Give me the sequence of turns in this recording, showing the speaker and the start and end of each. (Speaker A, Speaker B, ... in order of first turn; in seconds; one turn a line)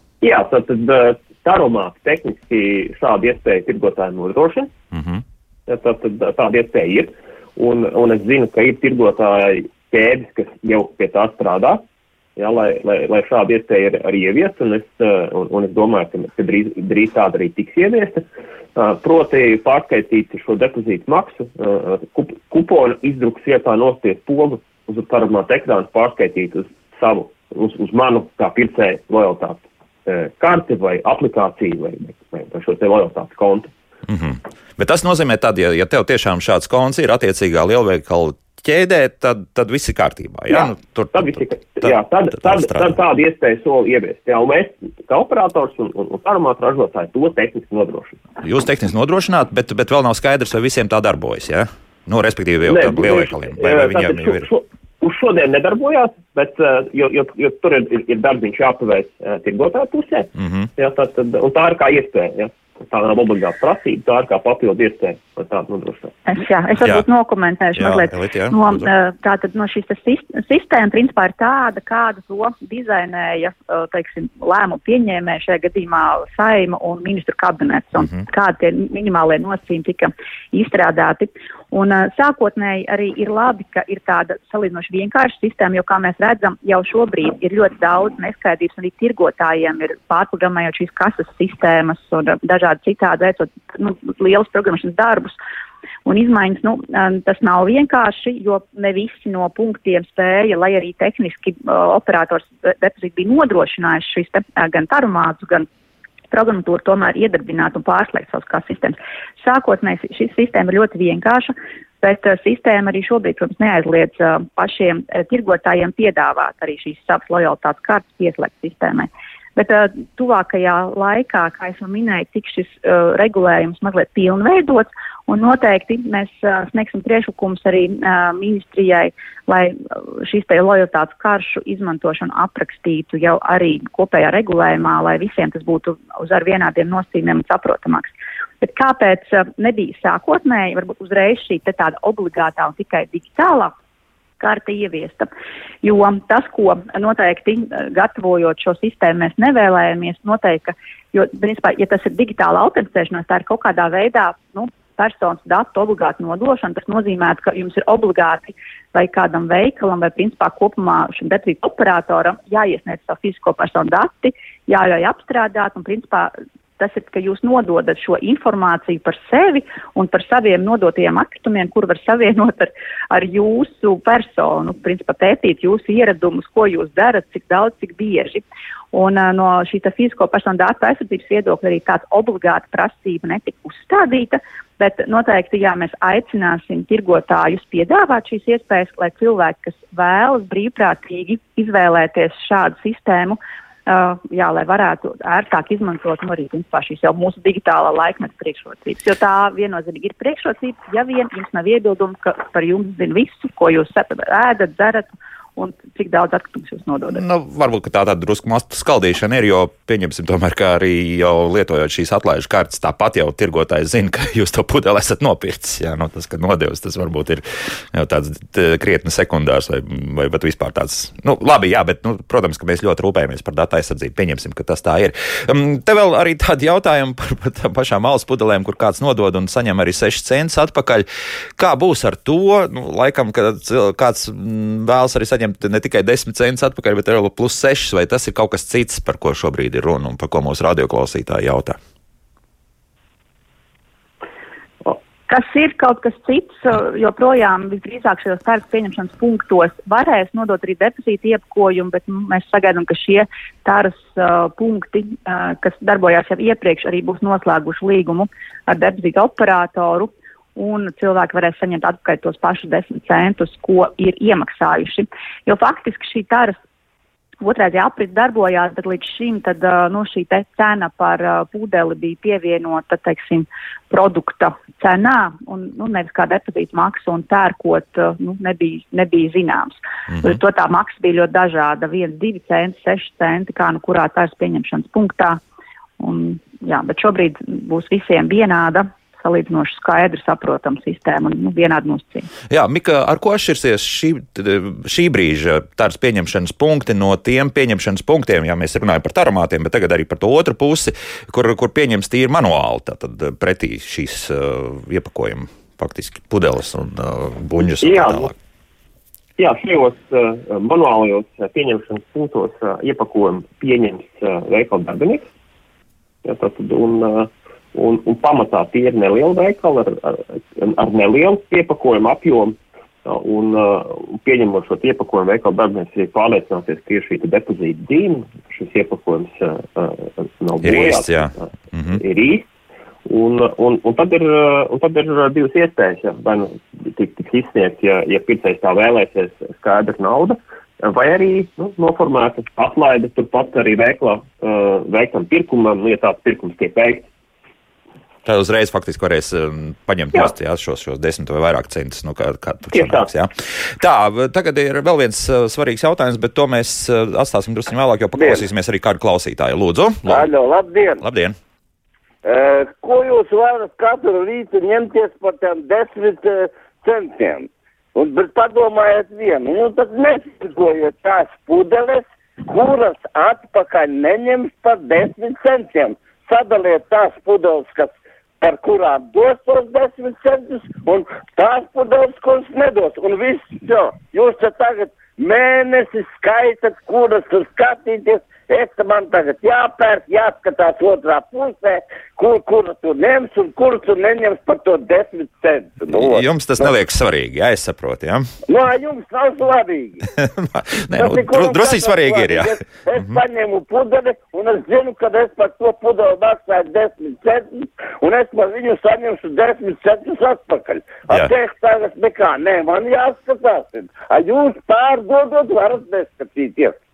Speaker A: 0.2-4.7
Speaker B: 4.9-5.2
Speaker A: 5.7-11.8
Speaker A: 12.3-18.2
Speaker A: 18.8-33.7
Speaker B: 34.1-42.9
Speaker A: 40.5-48.2
Speaker B: 48.4-54.5
Speaker A: 52.6-66.2
Speaker B: 60.4-60.7
Speaker C: 66.3-95.3
Speaker B: 66.8-67.0
Speaker B: 67.8-68.9
Speaker B: 78.0-78.2
Speaker C: 96.0-105.7
Speaker C: 106.3-143.7
Speaker C: 144.4-145.3
Speaker C: 145.8-207.2
Speaker B: 207.1-241.8
Speaker C: 245.3-266.6
Speaker C: 267.4-285.4
Speaker C: 286.0-292.3
Speaker B: 292.5-308.3
Speaker A: 307.8-308.3
Speaker A: 309.4-315.3
Speaker A: 316.2-332.5
Speaker B: 330.6-332.0
Speaker A: 333.1-347.1
Speaker B: 348.2-360.3
Speaker A: 352.7-353.1
Speaker D: 358.2-358.4
Speaker D: 360.1-361.0
Speaker B: 361.0-361.4
Speaker D: 362.2-396.7
Speaker B: 395.9-398.3
Speaker D: 398.5-400.1
Speaker B: 400.2-403.2
Speaker D: 400.9-416.8